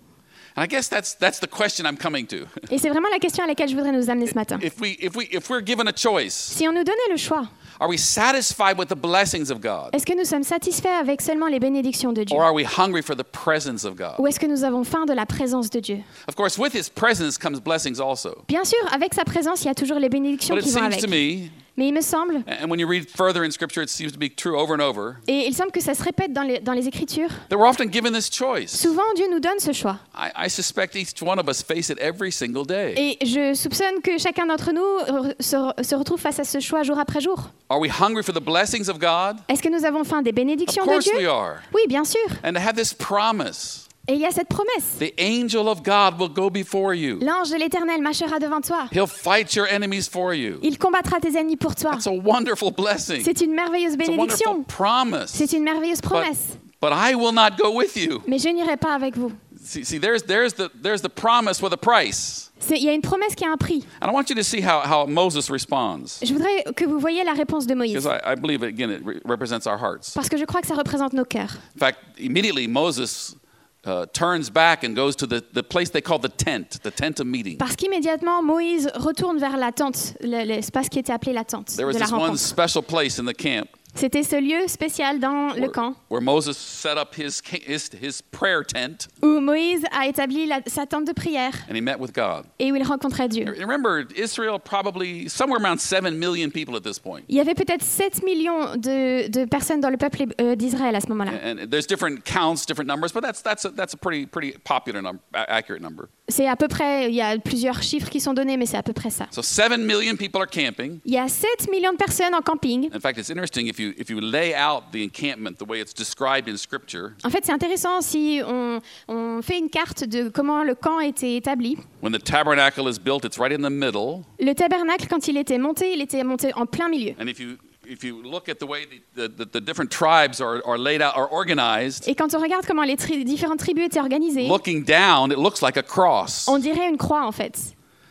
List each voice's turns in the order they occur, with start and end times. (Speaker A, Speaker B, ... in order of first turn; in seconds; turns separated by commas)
Speaker A: 0.6-2.7, Speaker B: 2.7-4.6, Speaker A: 4.5-6.6, Speaker B: 6.5-7.5, Speaker A: 7.8-9.9, Speaker B: 9.9-12.4, Speaker A: 12.3-14.2, Speaker B: 14.2-16.1, Speaker A: 16.2-18.4, Speaker B: 18.5-21.2, Speaker A: 20.5-21.6, Speaker B: 21.7-22.5, Speaker A: 22.4-25.2, Speaker B: 25.3-27.4, Speaker A: 27.5-28.9, Speaker B: 28.7-30.0, Speaker A: 30.1-33.0, Speaker B: 32.9-37.5, Speaker A: 37.7-39.4, Speaker B: 39.5-42.4, Speaker A: 40.7-41.7, Speaker A: 42.4-43.9, Speaker B: 44.1-45.0, Speaker A: 45.0-47.2, Speaker B: 47.2-48.9, Speaker A: 48.9-50.6, Speaker B: 50.6-52.0, Speaker A: 51.9-53.3, Speaker B: 53.2-54.6, Speaker A: 54.0-55.5, Speaker B: 55.3-56.6, Speaker A: 56.1-58.3, Speaker B: 58.2-59.4, Speaker A: 59.5-62.5, Speaker B: 62.6-63.9, Speaker A: 64.0-66.2, Speaker B: 66.2-68.1, Speaker A: 67.9-70.2, Speaker B: 70.1-71.6, Speaker A: 71.8-77.6, Speaker B: 77.6-82.5, Speaker A: 81.8-83.7, Speaker B: 83.9-86.0, Speaker A: 85.6-89.1, Speaker B: 89.2-91.7, Speaker A: 91.7-92.5, Speaker B: 92.6-93.5, Speaker A: 93.4-97.3, Speaker B: 97.3-101.4, Speaker A: 101.3-106.1, Speaker B: 106.3-109.3, Speaker A: 109.3-111.0, Speaker B: 111.0-112.9, Speaker A: 112.9-117.2, Speaker B: 117.2-121.8, Speaker A: 122.0-124.3, Speaker B: 124.4-127.2, Speaker A: 127.2-132.1, Speaker B: 132.0-134.6, Speaker A: 134.4-136.6, Speaker B: 136.5-137.7